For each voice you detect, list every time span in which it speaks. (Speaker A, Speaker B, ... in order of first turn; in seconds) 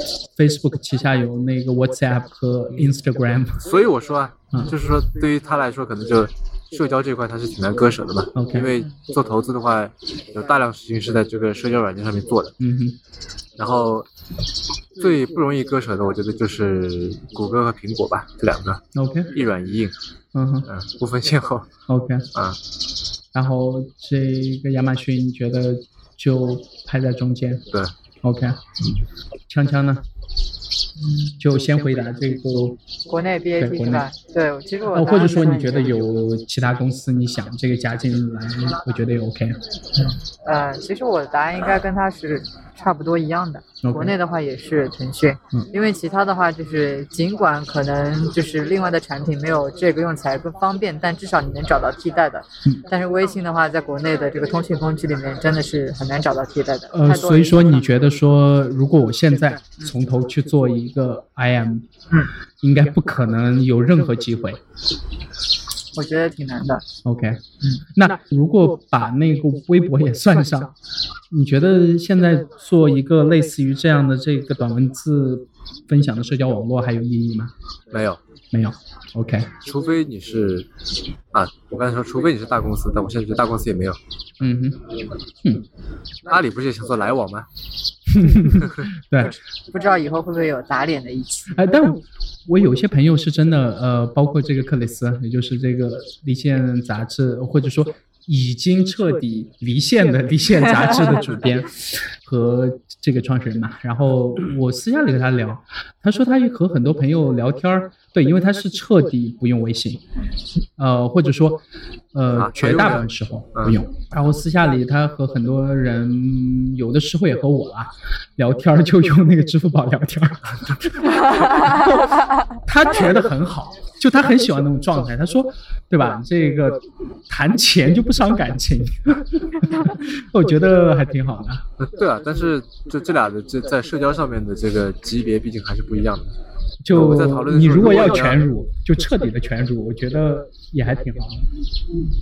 Speaker A: 0.4-3.6, 8.3-8.8, 12.6-13.0, 18.9-19.3, 20.3-20.7, 21.9-22.3, 23.3-27.7, 28.2-28.6, 29.5-30.0, 31.4-32.8, 33.6-34.1, 34.9-39.6, 43.8-44.1, 56.9-61.9, 62.6-64.6, 67.0-67.4, 68.0-70.7, 71.3-77.5, 78.5-79.5, 84.4-84.8, 88.1-89.4, 91.5-110.0, 110.8-111.6, 112.1-131.7, 136.8-141.5
Speaker B: 3.6-12.6, 13.6-14.1, 15.0-19.9, 20.7-21.7, 22.3-22.6, 77.9-78.2, 79.5-80.7, 81.3-84.0, 86.3-87.5, 88.5-88.8, 112.3-113.8, 131.8-136.3, 136.9-138.4
Speaker C: 33.1-35.9, 40.5-57.9, 66.0-66.8, 89.7-91.5